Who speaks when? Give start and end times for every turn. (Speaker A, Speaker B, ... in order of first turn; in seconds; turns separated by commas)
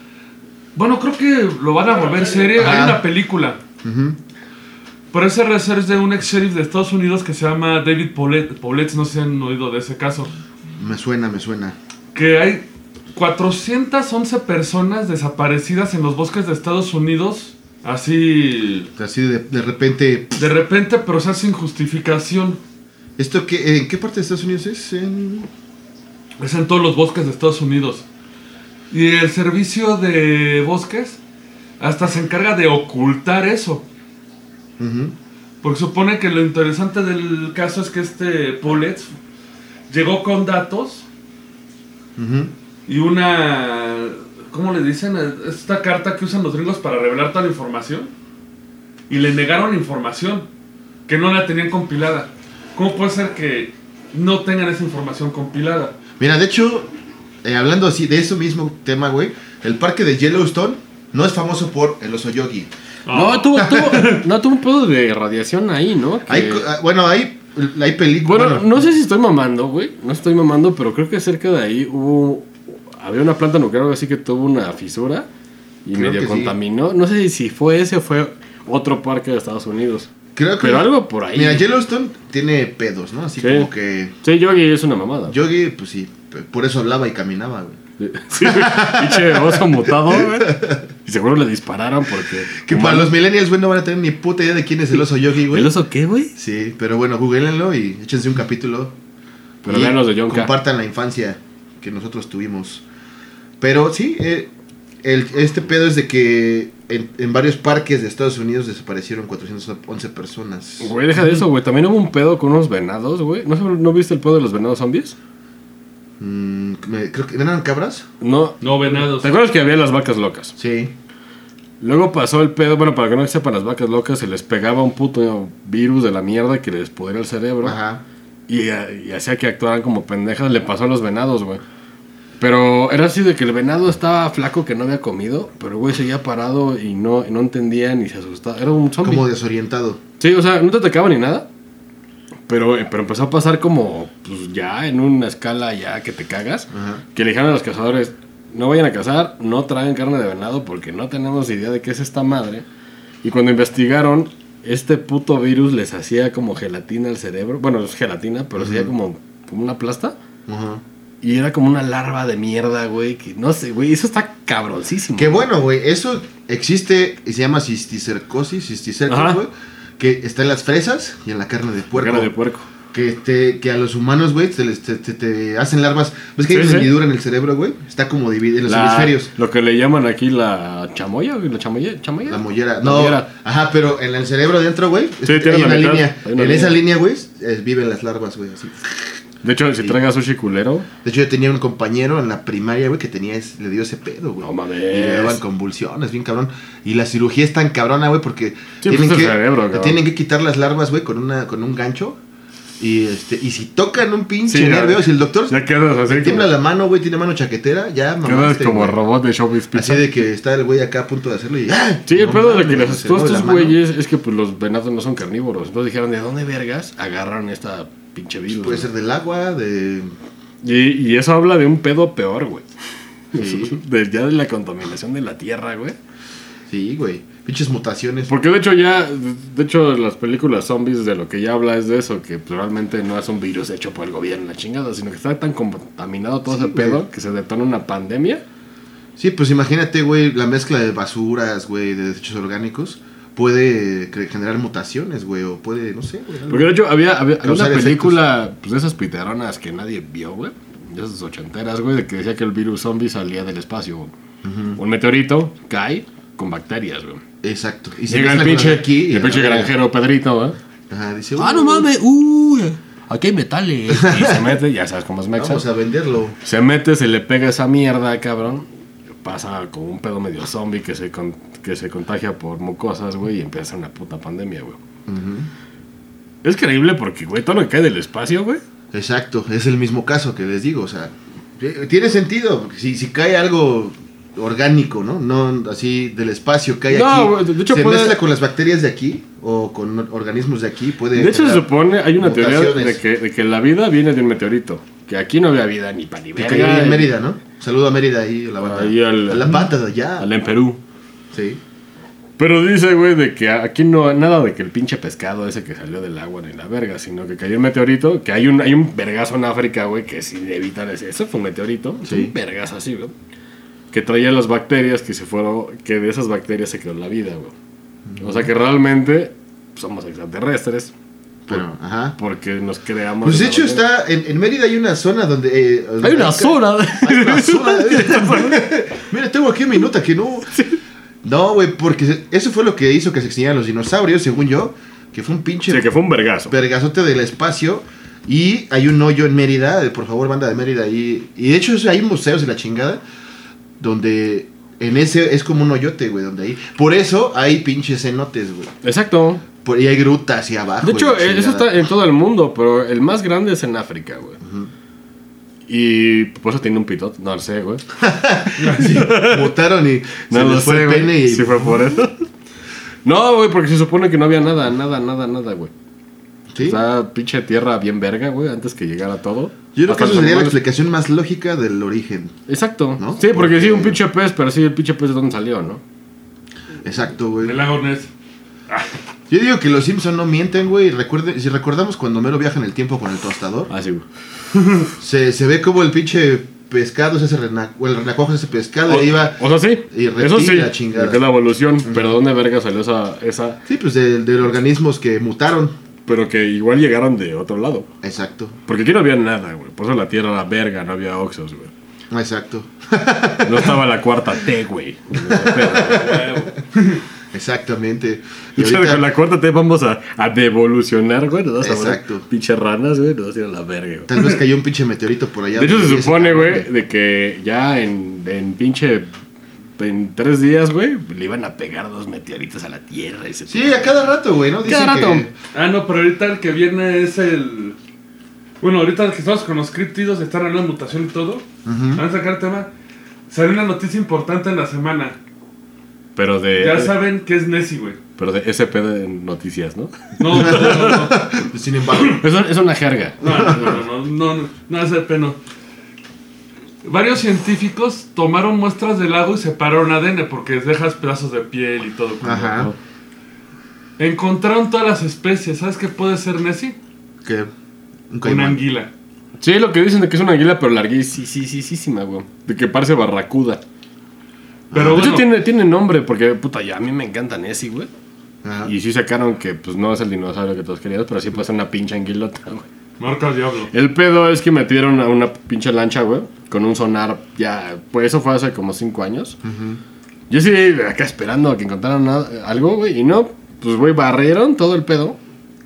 Speaker A: 0.8-3.6, Speaker B: 2.1-2.9, Speaker C: 2.6-3.0, Speaker C: 3.8-4.2, Speaker A: 5.1-10.3, Speaker C: 10.8-11.8, Speaker A: 12.1-18.9, Speaker C: 19.0-20.4, Speaker A: 20.4-22.6, Speaker C: 23.2-25.5, Speaker A: 26.4-28.1, Speaker A: 28.9-31.2, Speaker A: 31.8-33.9, Speaker C: 34.8-35.1, Speaker A: 35.6-39.1, Speaker A: 39.9-41.0, Speaker C: 42.2-42.5, Speaker A: 42.9-48.1, Speaker A: 49.1-50.5, Speaker A: 51.1-56.0, Speaker C: 56.2-56.9, Speaker C: 57.4-62.7, Speaker A: 63.1-64.2, Speaker B: 63.1-66.7, Speaker C: 66.3-68.9, Speaker B: 68.2-75.3, Speaker B: 75.8-81.7, Speaker C: 75.9-76.5, Speaker C: 80.3-84.2, Speaker B: 83.4-83.7, Speaker B: 84.2-85.3, Speaker C: 85.3-87.8, Speaker B: 88.0-93.1, Speaker C: 88.3-90.8, Speaker C: 92.6-95.7, Speaker B: 95.5-96.3, Speaker C: 96.3-99.0, Speaker B: 99.7-100.5, Speaker C: 99.7-102.8, Speaker C: 103.6-104.5, Speaker C: 105.0-111.4, Speaker B: 110.8-115.2, Speaker C: 116.2-118.1, Speaker B: 118.2-120.5, Speaker A: 118.6-119.4, Speaker C: 120.6-120.9, Speaker B: 121.8-127.8, Speaker C: 127.6-128.0, Speaker B: 128.5-131.6, Speaker B: 132.4-139.3, Speaker C: 139.0-140.0, Speaker B: 140.2-141.5, Speaker B: 142.5-152.7, Speaker C: 146.7-147.0, Speaker B: 153.2-160.2, Speaker C: 158.6-158.9, Speaker C: 160.5-160.8, Speaker B: 161.2-165.5, Speaker C: 165.2-172.3, Speaker B: 169.1-169.4, Speaker B: 171.9-172.7, Speaker C: 172.9-179.3, Speaker B: 176.5-176.9, Speaker B: 178.7-183.3, Speaker C: 182.3-189.0, Speaker B: 185.2-186.8, Speaker B: 189.4-190.9, Speaker C: 191.0-202.2, Speaker B: 194.4-195.4, Speaker B: 198.8-200.0, Speaker C: 202.8-209.0, Speaker B: 204.5-206.5, Speaker B: 208.2-210.1, Speaker C: 209.7-213.8, Speaker B: 212.1-218.9, Speaker C: 218.6-220.1, Speaker B: 220.6-222.7, Speaker B: 223.3-226.0, Speaker C: 223.3-223.8, Speaker C: 226.7-228.3, Speaker B: 228.3-238.4, Speaker C: 236.5-237.0, Speaker C: 239.2-246.8, Speaker B: 246.5-254.1, Speaker C: 247.4-248.2, Speaker C: 254.4-254.8, Speaker B: 254.8-257.2, Speaker C: 257.4-259.7, Speaker B: 258.1-260.6, Speaker C: 260.9-261.9, Speaker B: 261.4-265.6, Speaker C: 263.9-264.5, Speaker C: 265.4-266.4, Speaker B: 266.4-268.6, Speaker B: 269.2-274.8, Speaker C: 275.1-275.5, Speaker B: 276.4-278.6, Speaker C: 278.9-293.0, Speaker B: 286.9-288.2, Speaker B: 291.1-297.1, Speaker C: 296.4-300.3, Speaker B: 298.6-300.8, Speaker C: 301.3-301.6, Speaker B: 302.4-313.1, Speaker C: 312.0-312.3, Speaker B: 313.9-317.5, Speaker C: 318.1-318.5, Speaker B: 318.2-320.9, Speaker C: 321.5-322.2, Speaker B: 322.2-323.8, Speaker C: 323.2-330.5, Speaker B: 326.0-328.6, Speaker C: 331.2-335.9, Speaker B: 335.7-336.5, Speaker C: 336.5-343.0, Speaker C: 343.8-348.7, Speaker B: 348.8-349.4, Speaker C: 349.6-351.7, Speaker B: 350.8-354.4, Speaker C: 354.4-354.7, Speaker B: 355.7-357.8, Speaker C: 358.0-362.0, Speaker A: 358.6-358.9, Speaker B: 358.8-359.5, Speaker B: 360.3-362.3, Speaker B: 363.1-365.7, Speaker C: 366.5-366.8, Speaker B: 366.6-370.6, Speaker C: 369.7-372.4, Speaker B: 372.5-375.8, Speaker C: 373.0-374.0, Speaker C: 376.8-377.6, Speaker A: 377.4-378.1, Speaker C: 379.3-383.7, Speaker B: 383.7-384.1, Speaker A: 384.5-384.9, Speaker C: 385.0-391.2, Speaker B: 388.9-393.6, Speaker C: 391.8-392.2, Speaker C: 393.7-395.8, Speaker B: 396.1-397.9, Speaker C: 398.0-398.6, Speaker B: 398.7-401.7, Speaker C: 402.1-403.8, Speaker B: 403.5-406.2, Speaker C: 405.2-406.6, Speaker A: 406.0-407.0, Speaker C: 407.3-409.1, Speaker B: 408.6-414.1, Speaker C: 411.6-412.3, Speaker C: 414.1-416.7, Speaker B: 415.6-419.1, Speaker B: 419.8-424.0, Speaker C: 423.5-425.3, Speaker B: 424.6-425.3, Speaker A: 425.5-427.8, Speaker A: 428.6-432.7, Speaker C: 431.6-432.0, Speaker A: 433.3-435.2, Speaker B: 436.1-436.9, Speaker A: 436.5-438.0, Speaker B: 438.2-441.2, Speaker A: 440.2-441.3, Speaker C: 440.3-442.2, Speaker B: 442.1-443.4, Speaker A: 443.2-445.4, Speaker C: 443.3-443.8, Speaker A: 446.8-452.6, Speaker C: 452.2-452.7, Speaker B: 452.4-452.8, Speaker A: 454.0-456.8, Speaker C: 457.2-457.5, Speaker C: 458.1-458.6, Speaker A: 458.2-458.9, Speaker B: 459.4-463.6, Speaker C: 464.7-465.2, Speaker A: 464.8-465.3, Speaker B: 464.8-467.9, Speaker C: 468.4-468.7, Speaker B: 468.7-472.7, Speaker A: 473.0-473.7, Speaker B: 473.7-479.4, Speaker C: 479.4-479.8, Speaker B: 480.3-485.2